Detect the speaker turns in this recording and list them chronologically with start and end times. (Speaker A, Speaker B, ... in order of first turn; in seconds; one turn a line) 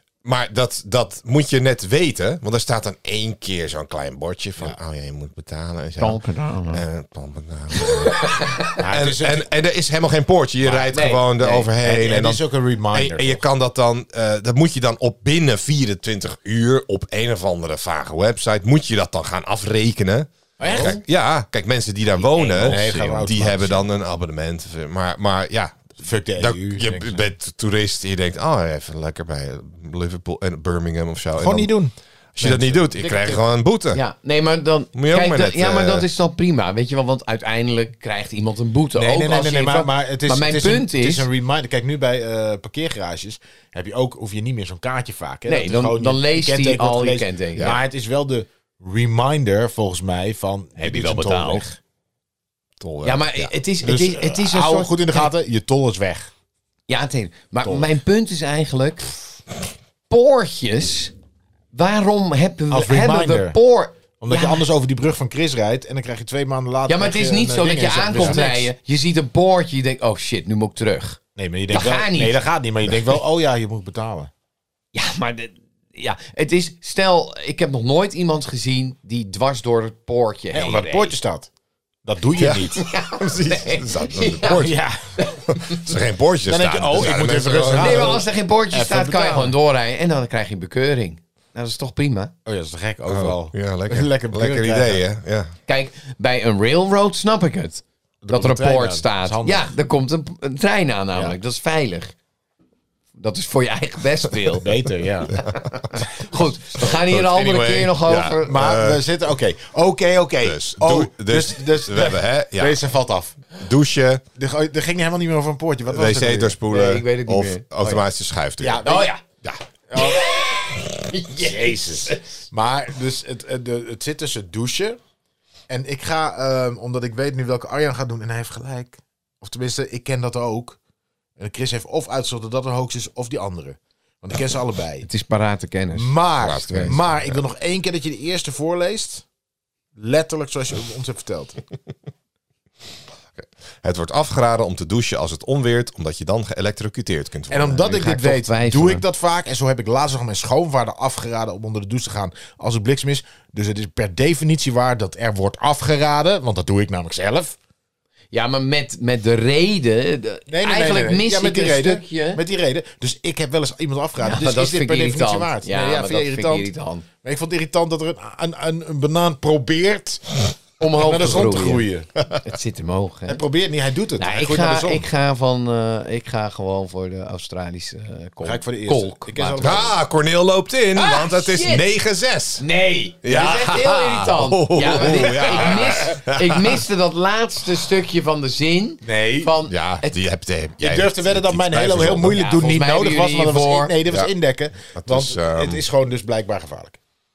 Speaker A: 0.2-6.2
Speaker B: 6.0-6.8
Speaker A: 6.7-31.8
Speaker B: 8.1-8.8
Speaker C: 8.8-9.5
Speaker B: 10.9-11.7
Speaker C: 11.8-13.4
Speaker B: 20.6-21.0
Speaker C: 20.6-20.9
Speaker B: 22.1-23.3
Speaker C: 22.6-23.8
Speaker C: 26.0-27.2
Speaker C: 31.4-33.4
Speaker A: 32.3-34.0
Speaker B: 33.9-41.3
Speaker A: 34.9-36.0
Speaker C: 39.0-51.8
Speaker B: 45.5-47.8
Speaker B: 50.8-51.6
Speaker A: 52.8-53.5
Speaker B: 53.0-55.3
Speaker C: 53.8-56.3
Speaker B: 56.9-59.3
Speaker B: 60.1-61.1
Speaker B: 61.7-64.7
Speaker C: 62.7-63.6
Speaker C: 64.2-68.7
Speaker B: 66.9-72.4
Speaker C: 71.3-74.3
Speaker B: 74.9-81.2
Speaker C: 80.5-81.5
Speaker C: 82.0-82.8
Speaker A: 82.4-84.8
Speaker B: 82.7-85.8
Speaker C: 84.5-85.6
Speaker A: 85.5-88.2
Speaker C: 86.5-89.5
Speaker B: 87.7-92.3
Speaker C: 92.5-95.0
Speaker A: 93.0-95.5
Speaker B: 95.7-102.1
Speaker C: 98.2-99.7
Speaker B: 103.2-104.7
Speaker C: 104.6-105.4
Speaker B: 105.3-108.6
Speaker A: 106.8-109.0
Speaker C: 108.4-113.5
Speaker A: 110.4-112.8
Speaker A: 113.6-114.2
Speaker C: 114.4-116.5
Speaker A: 115.9-118.8
Speaker B: 116.7-118.0
Speaker C: 118.6-119.1
Speaker B: 118.8-119.2
Speaker C: 119.9-120.2
Speaker B: 120.0-122.3
Speaker C: 121.3-125.0
Speaker C: 125.7-130.8
Speaker C: 131.4-135.1
Speaker B: 135.0-137.0
Speaker C: 135.9-139.2
Speaker A: 136.4-137.4
Speaker C: 139.9-141.6
Speaker A: 143.3-147.8
Speaker C: 147.5-157.6
Speaker B: 147.6-149.0
Speaker B: 158.3-162.4
Speaker C: 160.5-166.7
Speaker B: 164.2-167.1
Speaker C: 167.2-172.1
Speaker B: 170.8-173.4
Speaker C: 173.3-175.1
Speaker B: 174.2-179.8
Speaker C: 178.4-179.9
Speaker A: 179.6-182.7
Speaker B: 180.9-181.9
Speaker B: 182.6-190.1
Speaker A: 183.2-186.8
Speaker C: 185.0-185.8
Speaker C: 189.0-189.5
Speaker A: 189.7-192.4
Speaker C: 190.8-197.0
Speaker B: 192.0-193.9
Speaker A: 194.9-195.8